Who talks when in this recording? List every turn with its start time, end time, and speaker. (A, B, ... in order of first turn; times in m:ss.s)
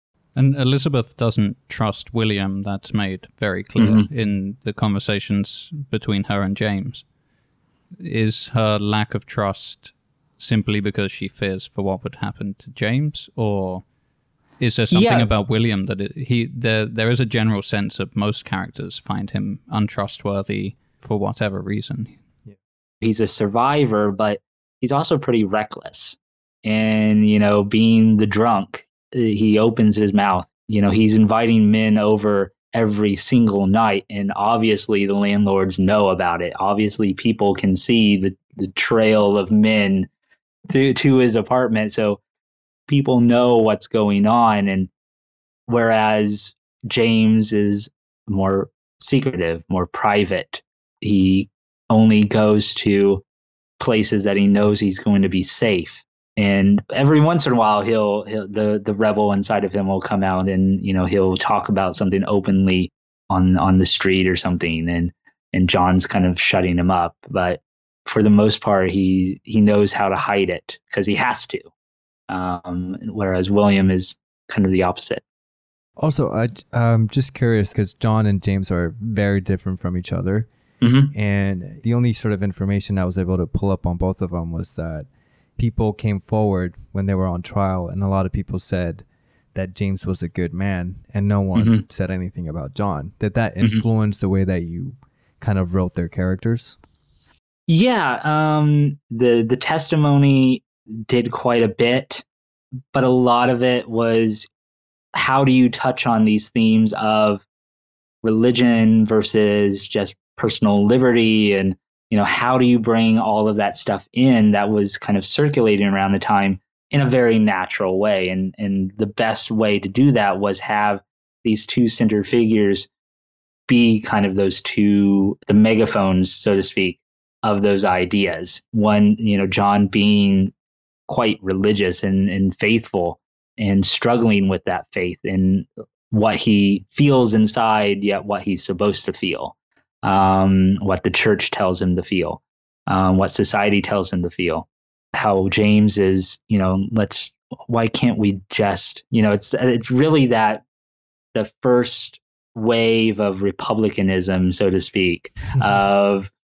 0:00.3-0:07.0 A
0:03.8-0:04.1 B
0:08.0-0:13.8 A
0:14.6-0:22.2 A
0:14.9-0:15.3 B
0:23.0-0:40.1 B
0:40.7-0:42.2 B
0:42.9-0:44.9 B
0:45.7-0:53.2 B
0:53.8-1:11.6 B
1:12.3-1:15.2 B
1:16.0-1:20.5 C
1:20.8-1:21.1 B
1:21.1-1:36.8 C
1:31.5-1:31.8 B
1:37.7-1:42.2 B
1:42.9-1:44.5 B
1:45.1-1:47.4 B
1:48.2-2:02.9 B
2:03.7-2:10.5 B
2:11.1-2:30.6 B
2:31.3-2:36.3 B